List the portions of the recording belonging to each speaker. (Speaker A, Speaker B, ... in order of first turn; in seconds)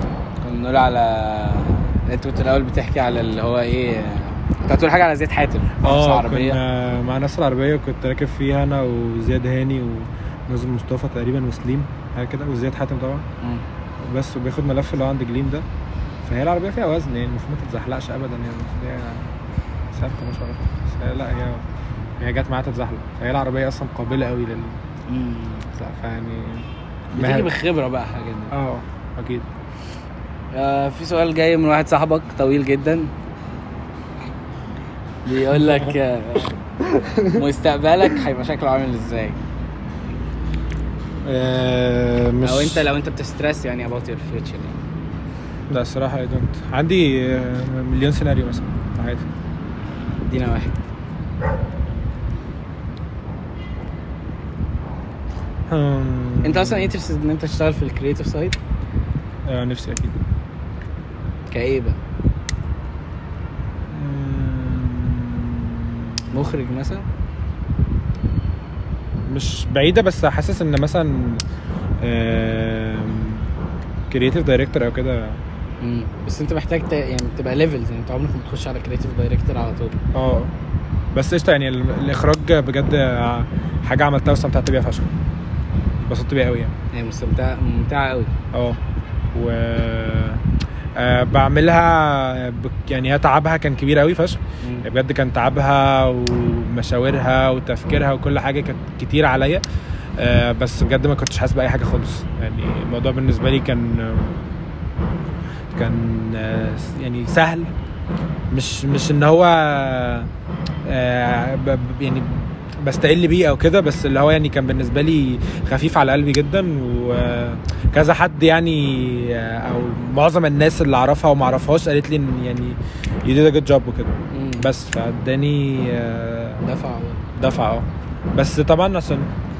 Speaker A: 0.4-6.6, 25.1-25.7, 27.1-28.5, 30.5-33.1, 35.2-36.5, 37.3-39.4, 42.4-44.8, 50.3-50.8, 56.4-58.6, 61.5-62.0, 66.3-67.0, 75.8-80.0, 86.9-88.3, 124.3-124.7, 126.6-127.3
Speaker B: 5.8-13.2, 14.0-15.7, 16.2-19.3, 19.9-21.6, 22.2-24.8, 25.8-27.5, 28.5-29.4, 35.5-35.9, 37.0-37.4, 41.2-42.9, 45.7-49.2, 55.7-56.9, 59.4-60.2, 63.9-66.7, 69.2-71.4, 72.0-73.5, 74.1-75.4, 80.1-80.5, 81.1-85.1, 86.0-86.7, 88.5-88.8, 89.3-90.4, 91.0-99.6, 100.2-104.4, 105.7-107.7, 108.5-110.3, 110.8-126.6, 127.3-129.3